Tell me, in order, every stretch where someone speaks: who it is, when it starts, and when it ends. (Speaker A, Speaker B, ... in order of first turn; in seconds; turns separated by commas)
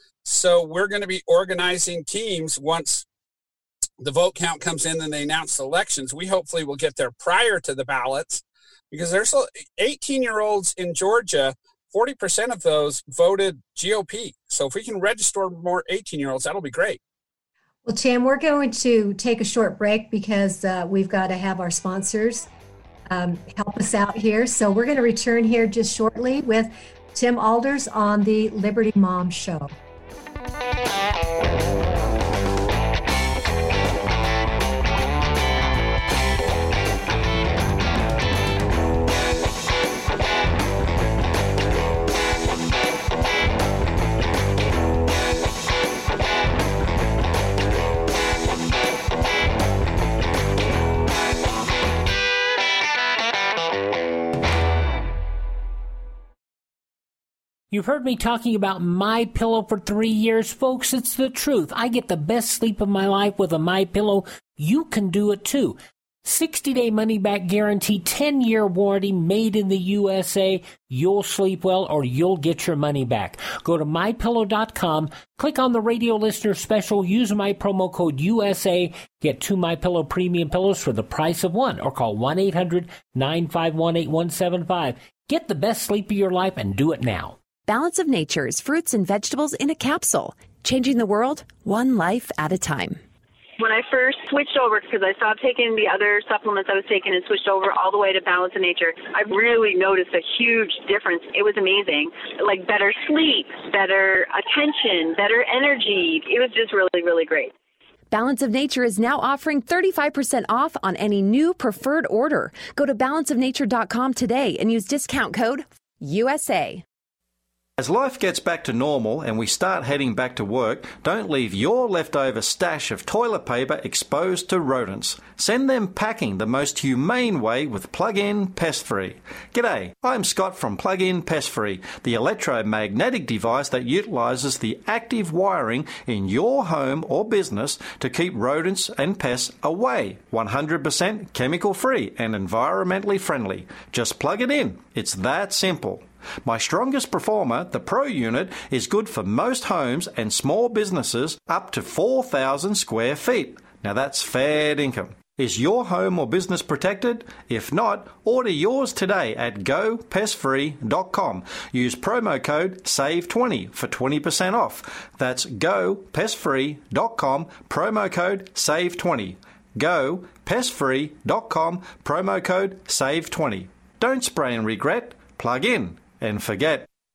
Speaker A: 0.2-3.0, Speaker A: 4.0-17.0, Speaker B: 17.8-22.5, Speaker B: 23.1-29.7, Speaker C: 57.7-87.3, Speaker D: 87.7-93.0, Speaker E: 93.6-107.5, Speaker D: 108.1-116.8, Speaker F: 117.8-176.9